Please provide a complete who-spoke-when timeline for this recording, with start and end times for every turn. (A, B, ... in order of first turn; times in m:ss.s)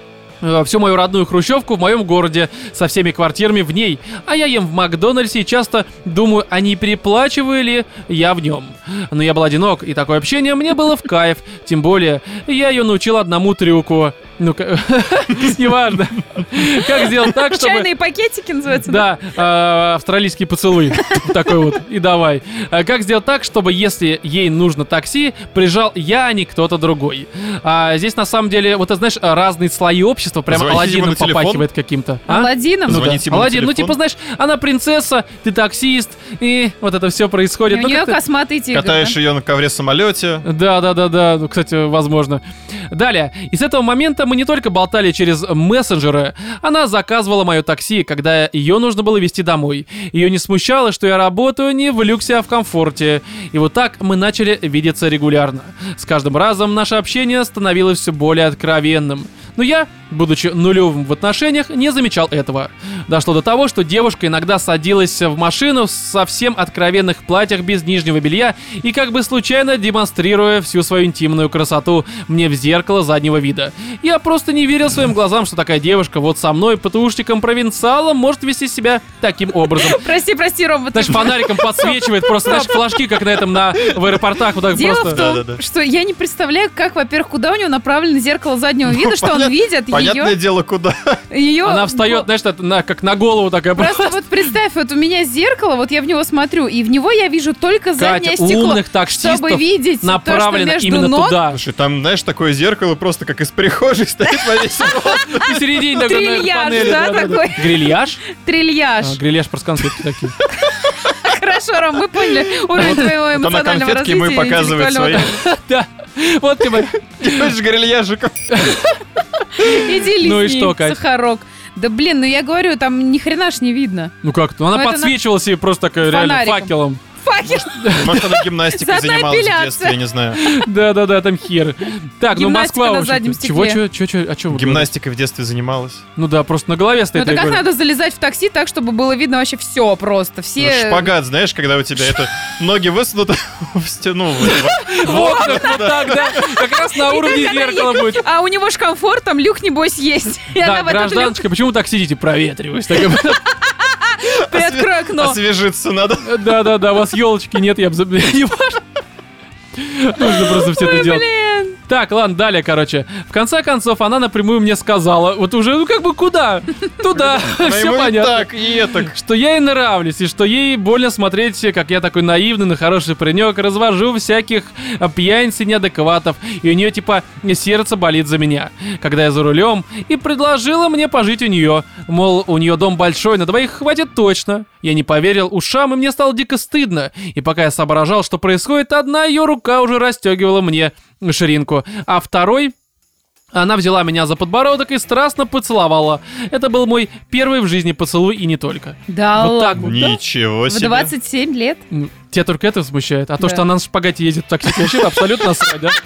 0:00.4-0:17.9 A
0:16.8-0:19.1 B
0:18.9-0:38.2 A
0:30.5-0:31.7 C
0:32.3-0:33.1 B
0:32.9-0:34.0 C
0:37.7-0:39.2 B
0:38.7-0:40.5 C
0:40.5-1:20.1 A
1:19.8-1:23.0 B
1:20.9-1:25.2 A
1:24.7-1:30.4 B
1:25.1-1:25.6 C
1:28.9-1:31.2 C
1:31.3-1:32.3 B
1:31.6-1:34.2 A
1:33.8-1:41.4 B
1:38.0-1:41.6 A
1:41.5-1:45.6 C
1:45.3-1:48.2 A
1:45.9-1:49.2 B
1:49.0-1:50.4 A
1:50.6-1:55.4 B
1:52.8-1:53.0 A
1:52.8-1:55.3 C
1:55.3-1:57.5 A
1:57.1-1:58.8 C
1:58.5-2:01.0 A
1:59.6-2:04.1 B
2:04.2-2:07.0 A
2:04.7-2:05.2 B
2:06.1-2:10.0 B
2:07.7-2:08.3 A
2:07.8-2:10.4 C
2:10.4-2:14.9 A
2:12.3-2:13.8 B
2:14.5-2:16.0 C
2:16.2-2:17.6 A
2:17.1-2:21.1 B
2:20.6-2:26.5 C
2:24.5-2:28.2 A
2:26.9-2:31.4 B
2:30.6-2:33.5 A
2:33.6-2:35.4 B
2:34.4-2:36.5 C
2:36.2-2:38.8 A
2:39.8-2:41.2 A
2:40.2-2:41.8 B
2:41.8-2:48.5 A
2:47.2-2:49.2 C
2:49.0-3:12.7 A
3:13.5-3:20.0 A
3:19.1-3:20.2 B
3:19.7-3:21.1 C
3:20.7-3:21.8 B
3:21.9-3:26.0 A